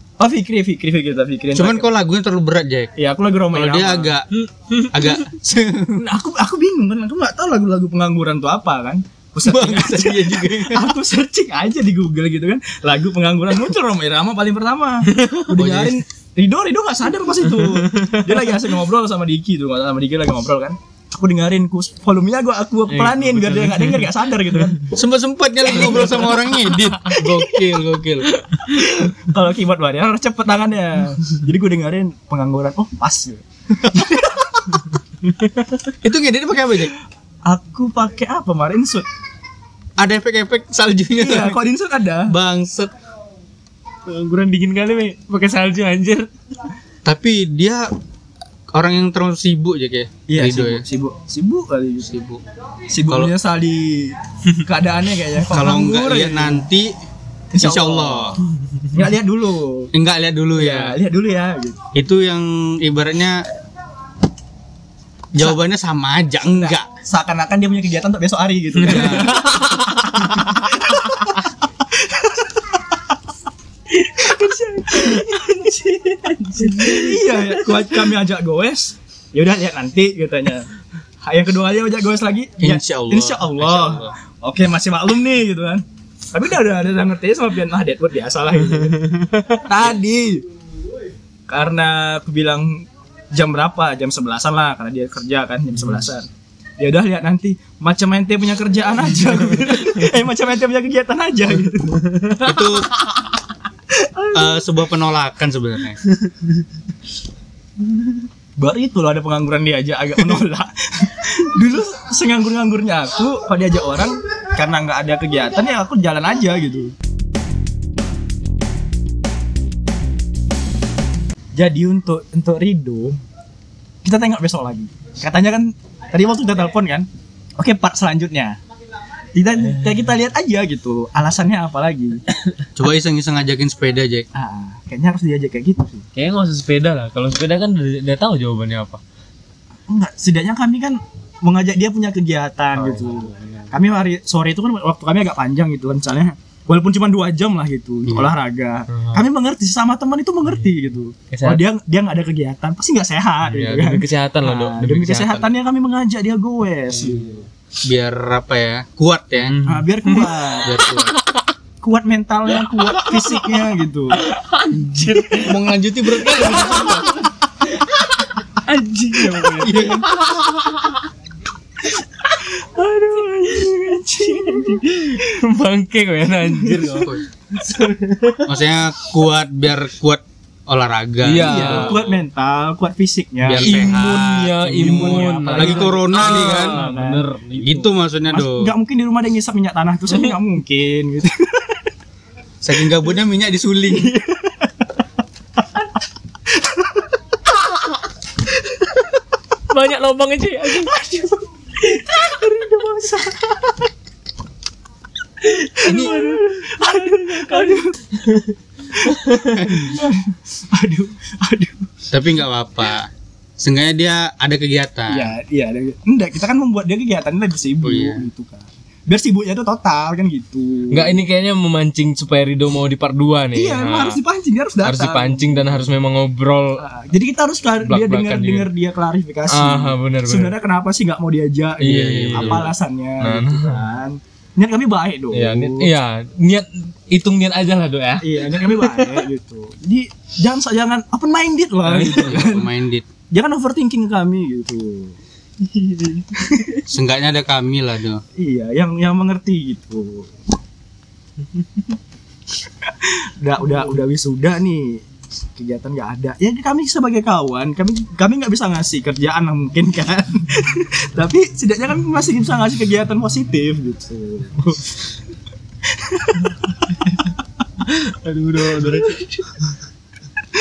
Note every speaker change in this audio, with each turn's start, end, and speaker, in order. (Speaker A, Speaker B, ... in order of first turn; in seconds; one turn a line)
Speaker A: 0.2-1.9
Speaker B: 1.6-2.9
Speaker A: 3.0-4.1
Speaker B: 3.5-4.3
Speaker C: 4.4-5.2
Speaker B: 4.9-6.1
Speaker A: 5.9-24.8
Speaker B: 9.4-11.0
Speaker C: 15.1-15.4
Speaker B: 15.6-16.0
Speaker C: 17.6-18.4
Speaker C: 22.9-24.8
Speaker B: 24.9-28.3
Speaker A: 25.7-27.4
Speaker C: 28.6-28.9
Speaker A: 28.6-34.8
Speaker B: 36.0-36.9
Speaker A: 37.5-39.1
Speaker B: 40.0-41.6
Speaker A: 41.2-42.3
Speaker B: 42.3-42.9
Speaker C: 44.1-46.3
Speaker B: 47.0-47.9
Speaker B: 48.7-50.8
Speaker A: 50.3-52.1
Speaker B: 52.1-52.4
Speaker A: 52.9-56.6
Speaker B: 53.0-53.3
Speaker B: 55.5-56.9
Speaker A: 57.5-58.4
Speaker B: 57.6-58.4
Speaker A: 58.9-59.9
Speaker B: 59.9-61.0
Speaker A: 60.5-61.8
Speaker B: 61.9-63.5
Speaker B: 65.3-66.9
Speaker A: 66.6-73.0
Speaker B: 68.8-69.4
Speaker C: 68.9-70.2
Speaker A: 73.9-80.7
Speaker C: 75.1-77.9
Speaker A: 81.2-90.5
Speaker B: 82.6-84.1
Speaker A: 91.5-96.3
Speaker A: 96.8-102.1
Speaker B: 102.4-102.9
Speaker A: 103.9-104.7
Speaker B: 104.3-106.0
Speaker A: 108.6-116.9
Speaker A: 121.6-123.2
Speaker A: 124.0-128.6
Speaker A: 129.3-132.2
Speaker C: 129.7-130.0
Speaker B: 132.8-134.3
Speaker A: 134.3-136.1
Speaker C: 136.2-139.0
Speaker A: 139.9-157.5
Speaker C: 142.8-143.7
Speaker C: 148.9-149.2
Speaker C: 151.3-151.6
Speaker C: 153.4-155.5
Speaker C: 157.0-157.3
Speaker B: 157.8-159.6
Speaker C: 159.5-160.3
Speaker A: 159.6-160.7
Speaker B: 160.6-161.2
Speaker C: 160.9-161.2
Speaker A: 161.8-164.2
Speaker C: 162.7-163.4
Speaker C: 164.2-167.2
Speaker A: 165.1-165.4
Speaker B: 165.4-167.1
Speaker C: 168.6-170.9
Speaker B: 169.6-170.1
Speaker A: 172.4-175.3
Speaker C: 173.2-173.7
Speaker C: 174.3-178.5
Speaker A: 176.6-177.0
Speaker B: 178.5-182.0
Speaker C: 181.2-182.2
Speaker A: 181.3-184.1
Speaker B: 183.4-186.8
Speaker C: 183.6-187.9
Speaker A: 184.8-187.2
Speaker B: 187.6-188.7
Speaker A: 188.3-191.9
Speaker B: 192.6-194.1
Speaker A: 193.9-194.8
Speaker A: 196.5-197.1
Speaker C: 199.7-201.1
Speaker A: 200.9-203.8
Speaker C: 201.9-202.3
Speaker C: 205.4-209.7
Speaker A: 205.8-208.1
Speaker B: 205.9-206.2
Speaker A: 208.9-211.9
Speaker B: 212.1-215.3
Speaker A: 215.1-221.2
Speaker B: 217.8-218.3
Speaker C: 220.9-224.2
Speaker A: 223.6-225.9
Speaker C: 224.8-226.8
Speaker A: 226.8-235.9
Speaker C: 227.9-228.7
Speaker C: 229.5-230.5
Speaker C: 231.8-233.8
Speaker B: 231.9-232.7
Speaker C: 235.3-239.2
Speaker A: 238.2-242.7
Speaker C: 241.9-242.5
Speaker B: 242.1-243.1
Speaker A: 243.3-245.2
Speaker A: 246.3-246.8
Speaker B: 246.9-248.2
Speaker A: 248.4-250.3
Speaker A: 252.8-255.0
Speaker A: 255.6-265.0
Speaker A: 265.9-266.6
Speaker C: 267.8-269.7